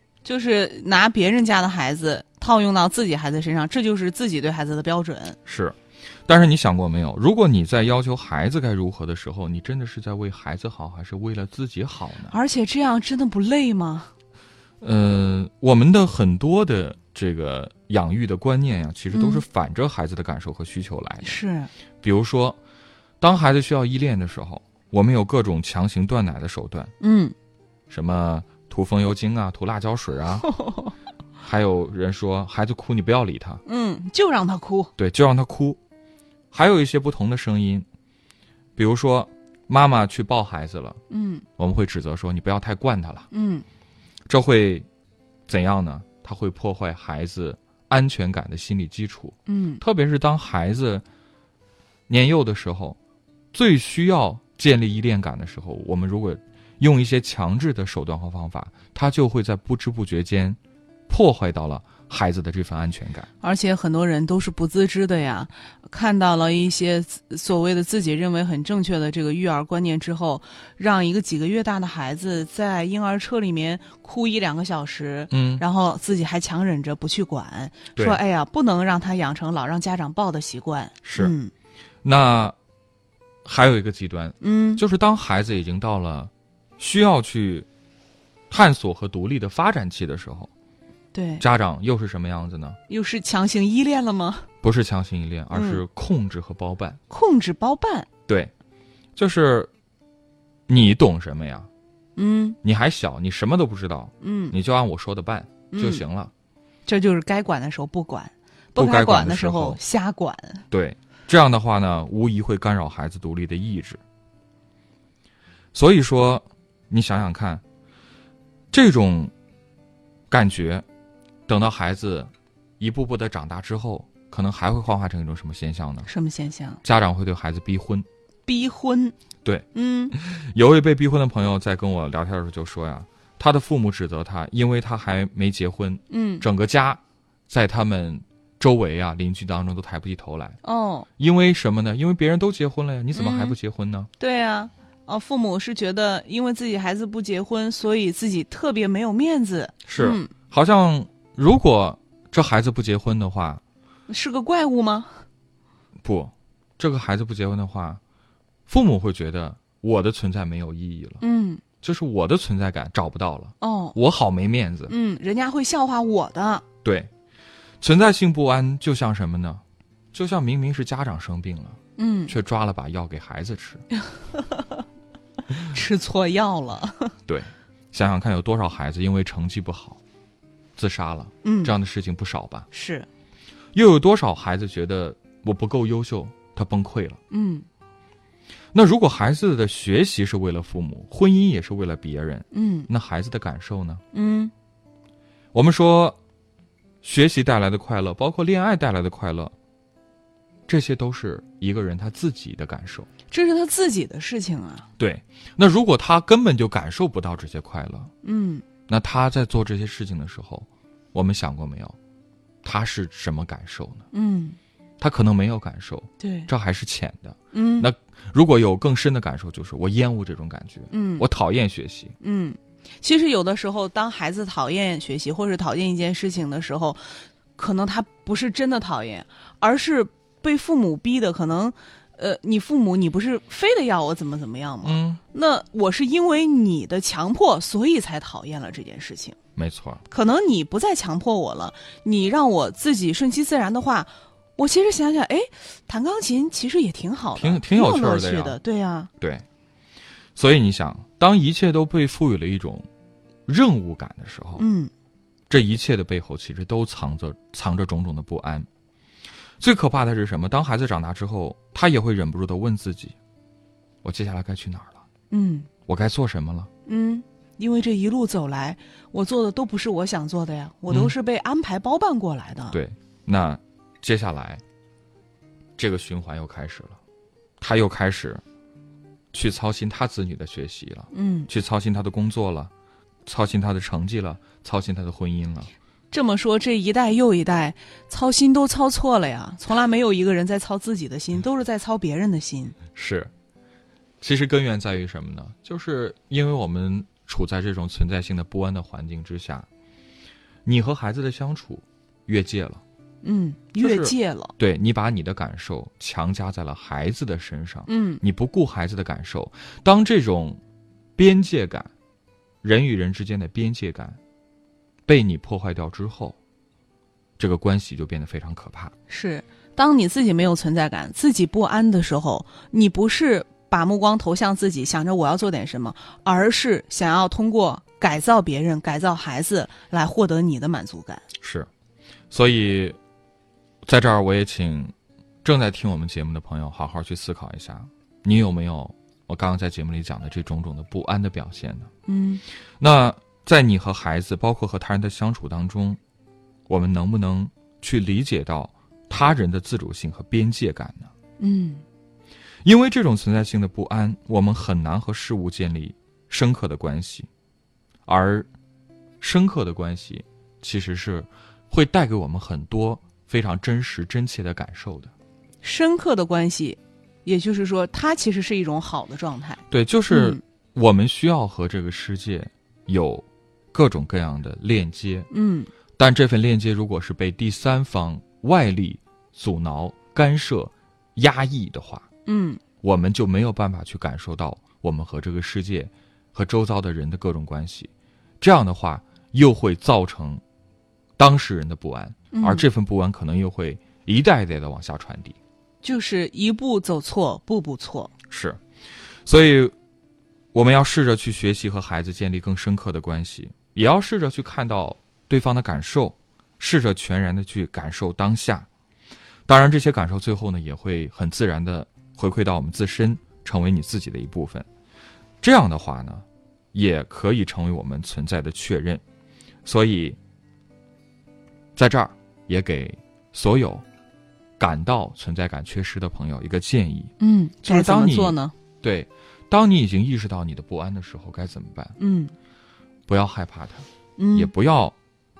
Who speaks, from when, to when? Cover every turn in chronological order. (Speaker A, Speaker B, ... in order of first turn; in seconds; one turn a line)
Speaker A: 0.2-5.4
Speaker B: 5.5-12.3
Speaker A: 12.3-14.1
Speaker B: 14.8-21.4
Speaker A: 19.1-19.4
Speaker A: 21.2-21.7
Speaker B: 22.0-22.6
Speaker B: 23.2-26.9
Speaker A: 27.0-27.3
Speaker B: 27.9-30.5
Speaker A: 30.6-30.9
Speaker B: 31.4-33.6
Speaker A: 33.7-34.9
Speaker B: 35.0-35.8
Speaker B: 36.5-37.9
Speaker B: 38.8-41.0
Speaker A: 41.1-41.5
Speaker B: 41.6-43.3
Speaker A: 43.3-43.6
Speaker B: 44.3-44.9
Speaker B: 45.5-51.0
Speaker A: 49.5-49.8
Speaker B: 52.1-53.0
Speaker B: 53.5-63.3
Speaker A: 63.4-81.5
Speaker B: 75.3-75.6
Speaker B: 81.0-81.3
Speaker B: 82.0-82.6
Speaker B: 83.5-87.7
Speaker A: 84.4-84.8
Speaker B: 88.5-90.5
Speaker A: 91.1-91.4
Speaker B: 91.4-92.8
Speaker A: 92.9-94.5
Speaker B: 94.6-97.0
Speaker A: 95.5-95.8
Speaker A: 97.1-98.1
Speaker B: 99.2-99.7
Speaker B: 100.7-101.7
Speaker A: 102.2-102.6
Speaker B: 102.6-106.3
Speaker A: 104.2-104.6
Speaker A: 105.7-106.0
Speaker A: 106.9-110.6
Speaker B: 108.8-109.8
Speaker B: 110.7-114.0
Speaker B: 115.7-117.6
Speaker B: 118.7-119.3
Speaker B: 120.3-120.8
Speaker B: 121.5-126.1
Speaker A: 126.1-126.8
Speaker B: 126.8-128.1
Speaker A: 128.5-129.2
Speaker B: 129.4-140.6
Speaker A: 129.7-130.2
Speaker A: 136.1-136.5
Speaker A: 140.6-141.1
Speaker B: 141.2-144.1
Speaker A: 143.2-143.6
Speaker A: 144.2-150.3
Speaker B: 149.9-153.6
Speaker A: 154.1-155.2
Speaker B: 156.0-158.0
Speaker B: 158.7-161.2
Speaker A: 161.2-161.6
Speaker B: 161.8-164.9
Speaker A: 163.6-164.0
Speaker A: 164.9-166.6
Speaker B: 166.8-167.1
Speaker B: 167.8-173.8
Speaker A: 172.0-172.3
Speaker A: 174.0-174.8
Speaker A: 175.6-177.2
Speaker B: 177.3-180.0
Speaker B: 180.8-182.7
Speaker A: 181.4-181.7
Speaker A: 182.7-183.1
Speaker B: 183.7-187.2
Speaker A: 187.3-187.7
Speaker B: 188.7-194.0
Speaker A: 192.5-192.9
Speaker A: 194.1-194.5
Speaker B: 195.5-196.2
Speaker B: 197.0-199.5
Speaker B: 200.7-203.1
Speaker A: 203.3-204.9
Speaker B: 205.0-208.1
Speaker A: 208.2-208.6
Speaker B: 208.9-212.0
Speaker B: 212.6-214.1
Speaker A: 214.1-214.6
Speaker B: 215.0-222.2
Speaker A: 216.2-216.5
Speaker A: 217.5-217.9
Speaker A: 220.9-221.3
Speaker A: 222.2-239.4
Speaker B: 234.8-235.2
Speaker B: 239.6-240.0
Speaker A: 240.1-249.1
Speaker B: 247.4-248.6
Speaker B: 249.2-249.4
Speaker B: 250.4-252.9
Speaker B: 253.5-254.7
Speaker A: 254.6-254.9
Speaker B: 255.5-258.7
Speaker B: 259.6-263.2
Speaker B: 264.0-265.0
Speaker A: 265.3-265.7
Speaker B: 265.9-266.7
Speaker A: 266.9-272.8
Speaker B: 270.9-271.1
Speaker B: 272.7-274.6
Speaker B: 275.8-277.0
Speaker B: 277.6-278.4
Speaker B: 279.3-282.7
Speaker A: 281.1-281.5
Speaker B: 283.3-285.7
Speaker A: 286.1-292.8
Speaker B: 292.9-293.3
Speaker B: 294.2-299.7
Speaker B: 300.6-302.8
Speaker A: 303.2-304.5
Speaker B: 303.8-310.6
Speaker A: 307.9-308.2
Speaker B: 311.2-311.9
Speaker B: 312.6-314.2
Speaker B: 315.1-316.4
Speaker B: 317.4-318.9
Speaker A: 319.1-331.2
Speaker B: 331.4-331.7
Speaker B: 332.3-333.0
Speaker B: 333.9-334.9
Speaker B: 335.4-341.9
Speaker A: 342.1-342.4
Speaker B: 342.8-346.0
Speaker B: 346.7-351.1
Speaker A: 351.4-351.8
Speaker B: 352.6-357.3
Speaker B: 358.1-358.5
Speaker B: 359.2-365.1
Speaker A: 365.6-370.4
Speaker B: 369.7-375.3
Speaker A: 375.3-375.7
Speaker B: 376.0-382.1
Speaker A: 382.3-382.6
Speaker B: 382.8-390.4
Speaker B: 391.2-395.4
Speaker A: 392.3-392.6
Speaker A: 395.8-398.1
Speaker B: 398.3-398.6
Speaker B: 399.3-399.8
Speaker B: 400.5-408.7
Speaker B: 409.5-414.7
Speaker B: 415.4-419.0
Speaker B: 419.6-420.2
Speaker B: 421.8-423.8
Speaker B: 424.6-431.9
Speaker A: 427.2-428.5
Speaker A: 432.0-432.3
Speaker B: 433.1-435.0
Speaker A: 434.2-434.5